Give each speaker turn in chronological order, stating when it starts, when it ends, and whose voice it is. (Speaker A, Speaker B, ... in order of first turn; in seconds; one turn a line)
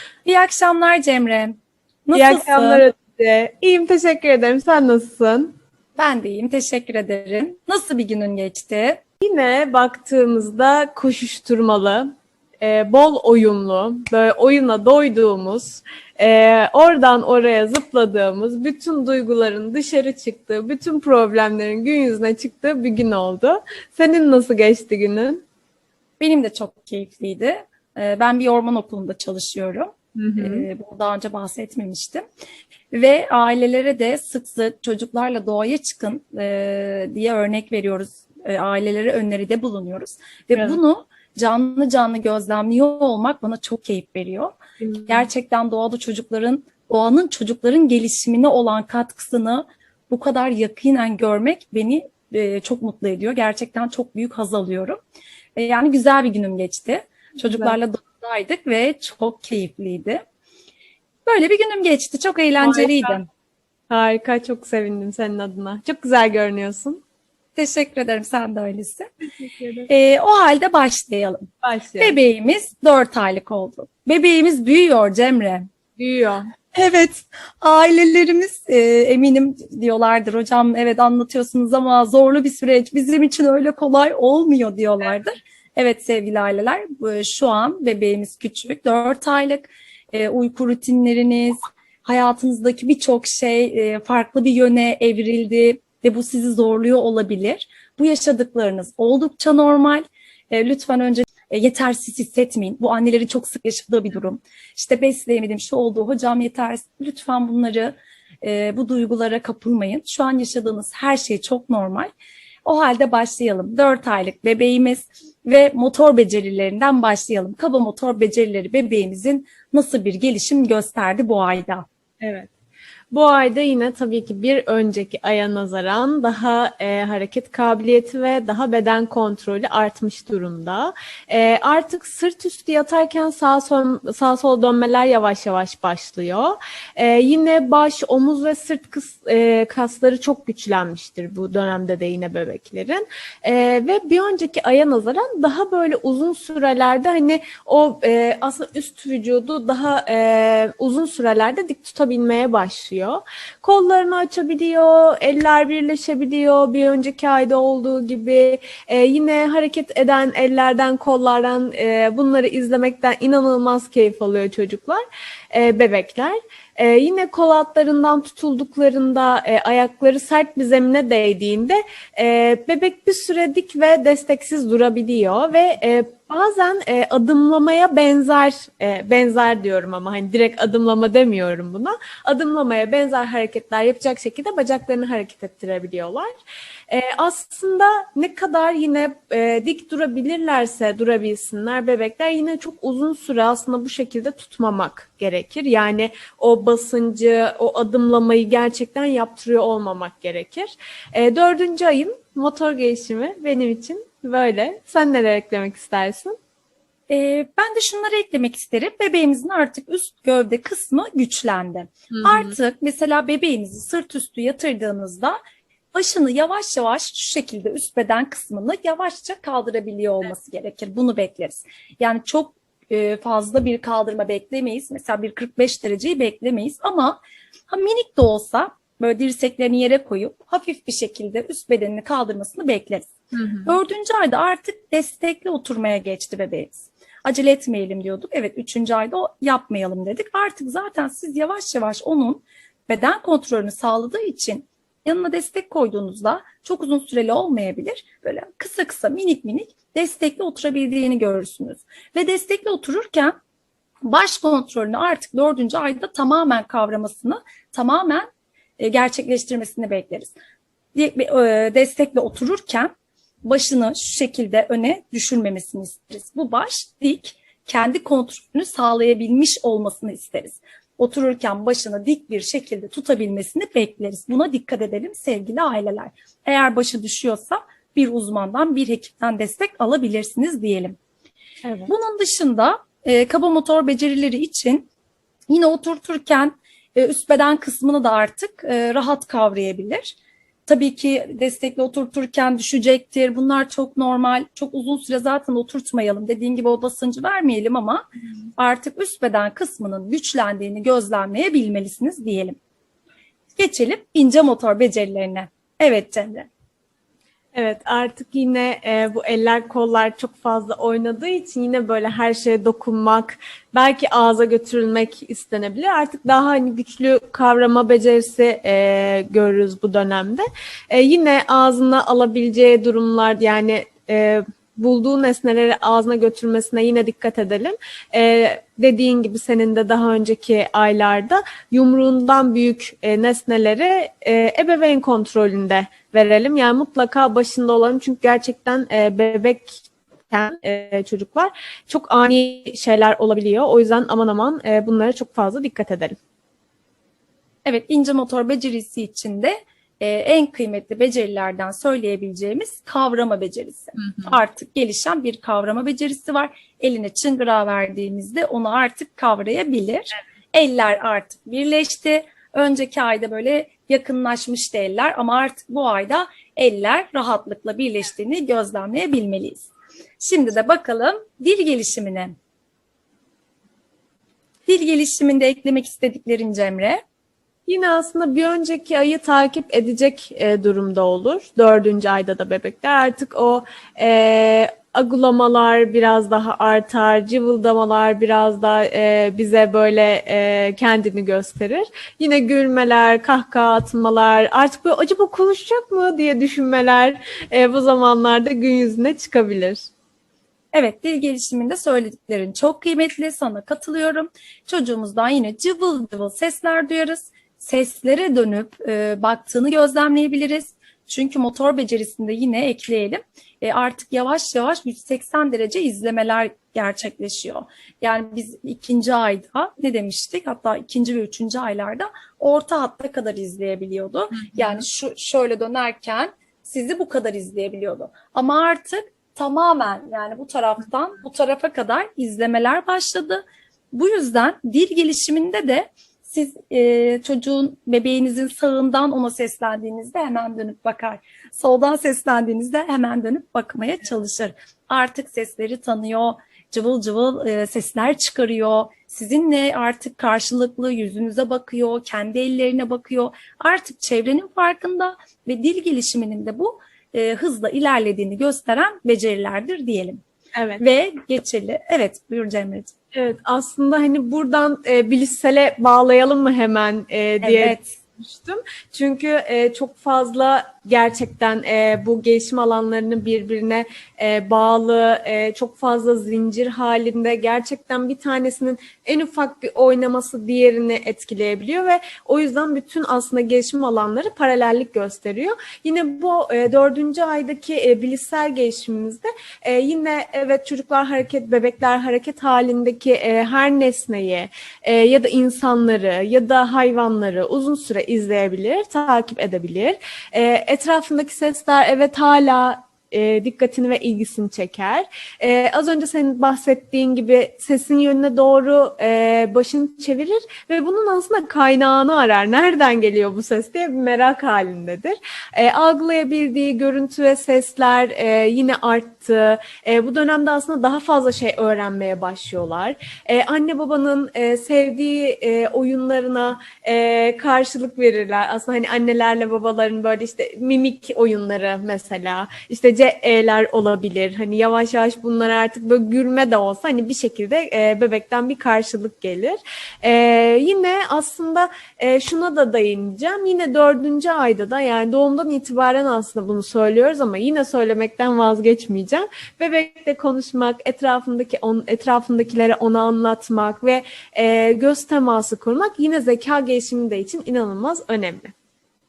Speaker A: 0.2-2.9
Speaker B: 2.1-5.5
Speaker A: 6.0-9.0
Speaker B: 9.2-12.1
Speaker B: 12.6-25.4
Speaker A: 26.2-32.2
Speaker B: 30.1-30.7
Speaker A: 32.9-55.0
Speaker B: 40.5-40.8
Speaker B: 44.8-45.3
Speaker A: 55.5-60.2
Speaker B: 57.4-57.8
Speaker A: 61.2-63.2
Speaker B: 62.6-63.2
Speaker B: 63.9-67.0
Speaker A: 67.5-69.1
Speaker B: 69.2-69.9
Speaker A: 69.9-75.7
Speaker B: 71.6-72.2
Speaker B: 76.0-76.4
Speaker A: 76.7-112.1
Speaker A: 112.6-121.8
Speaker B: 122.2-122.5
Speaker B: 123.1-186.3
Speaker B: 186.9-206.3
Speaker A: 207.1-215.4
Speaker B: 212.1-212.5
Speaker A: 215.9-233.1
Speaker B: 233.3-233.8
Speaker A: 233.6-253.3
Speaker A: 254.0-258.3
Speaker A: 258.8-260.3
Speaker A: 260.9-262.9
Speaker A: 263.4-281.0
Speaker B: 281.6-281.9
Speaker A: 281.9-284.9
Speaker A: 285.5-302.6
Speaker A: 303.6-306.5
Speaker B: 307.5-346.1
Speaker A: 347.6-372.3
Speaker A: 374.6-377.0
Speaker B: 377.7-399.8
Speaker A: 400.7-460.2
Speaker B: 424.4-424.8
Speaker B: 460.5-460.8
Speaker A: 460.8-462.9
Speaker B: 463.1-558.5
Speaker A: 467.4-467.9